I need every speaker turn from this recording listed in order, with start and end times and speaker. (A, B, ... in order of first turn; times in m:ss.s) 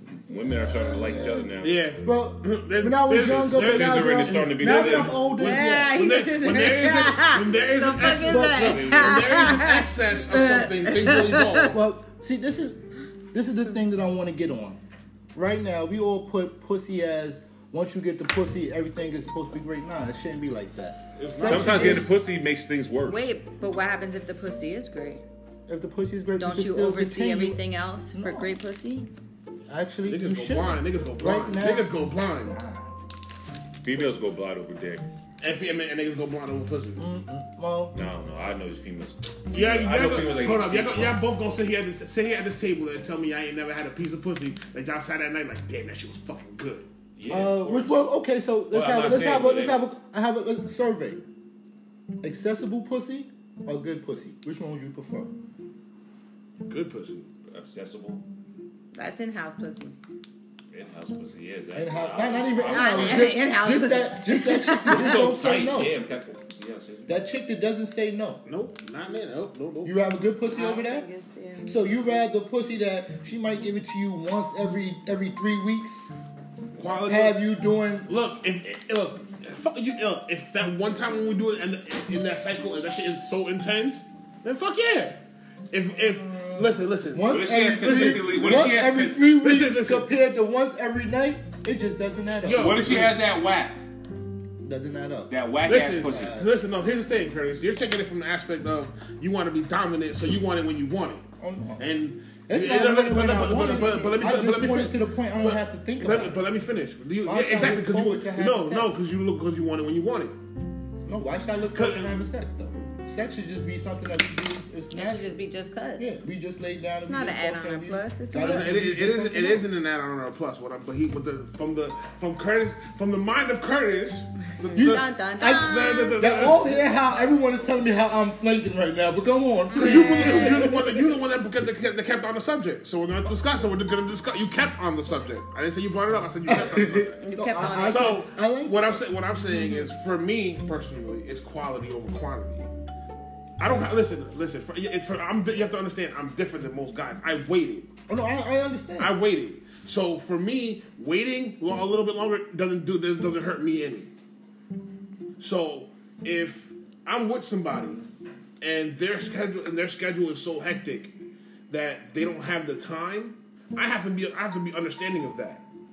0:00.3-0:01.5 A
0:00.3-0:01.8 B
0:01.1-0:11.8 C
0:02.0-0:06.0 A
0:03.2-0:05.2 B
0:05.4-0:11.7 D
0:08.1-0:09.3 A
0:11.7-0:14.8 A
0:15.3-0:22.1 A
0:21.2-0:22.1 C
0:21.4-0:23.4 B
0:23.1-0:25.2 D
0:25.7-0:27.6 A
0:26.4-0:29.1 D
0:28.1-0:28.6 A
0:29.7-0:31.9 A
0:30.1-0:32.6 C
0:32.4-0:33.0 A
0:33.8-0:35.0 B
0:35.4-0:37.0 C
0:37.0-0:38.0 A
0:37.9-0:41.2 B
0:39.5-0:46.9 C
0:47.2-0:48.1 B
0:47.3-0:51.2 A
0:48.7-0:49.8 B
0:52.2-0:55.3 A
0:56.6-0:57.3 C
0:57.5-0:58.2 B
0:58.9-1:00.0 D
1:00.7-1:03.3 B
1:01.7-1:06.0 A
1:02.7-1:05.2 D
1:04.9-1:07.1 B
1:07.1-1:08.4 A
1:08.5-1:10.0 C
1:09.8-1:11.1 A
1:10.5-1:11.9 D
1:11.6-1:16.1 A
1:16.7-1:17.4 C
1:17.1-1:18.1 A
1:18.1-1:25.2 C
1:25.7-1:30.1 C
1:25.9-1:33.1 A
1:27.3-1:29.2 B
1:32.3-1:33.2 C
1:32.5-1:33.8 B
1:34.6-1:35.3 A
1:35.3-1:36.4 B
1:35.6-1:41.3 C
1:36.1-1:36.5 A
1:41.4-1:46.4 A
1:41.8-1:50.4 C
1:47.2-1:49.1 A
1:51.0-1:55.4 A
1:51.7-1:52.1 C
1:54.9-1:56.1 D
1:56.0-1:59.6 A
1:57.0-1:58.7 D
1:58.4-2:06.8 C
2:04.7-2:06.2 D
2:04.8-2:11.1 A
2:09.7-2:10.7 D
2:09.7-2:17.2 C
2:16.5-2:19.0 A
2:17.2-2:18.2 D
2:17.8-2:22.7 C
2:23.6-2:27.9 C
2:28.1-2:29.2 A
2:29.0-2:34.1 C
2:35.4-2:38.0 C
2:38.6-2:41.1 C
2:41.7-2:45.6 C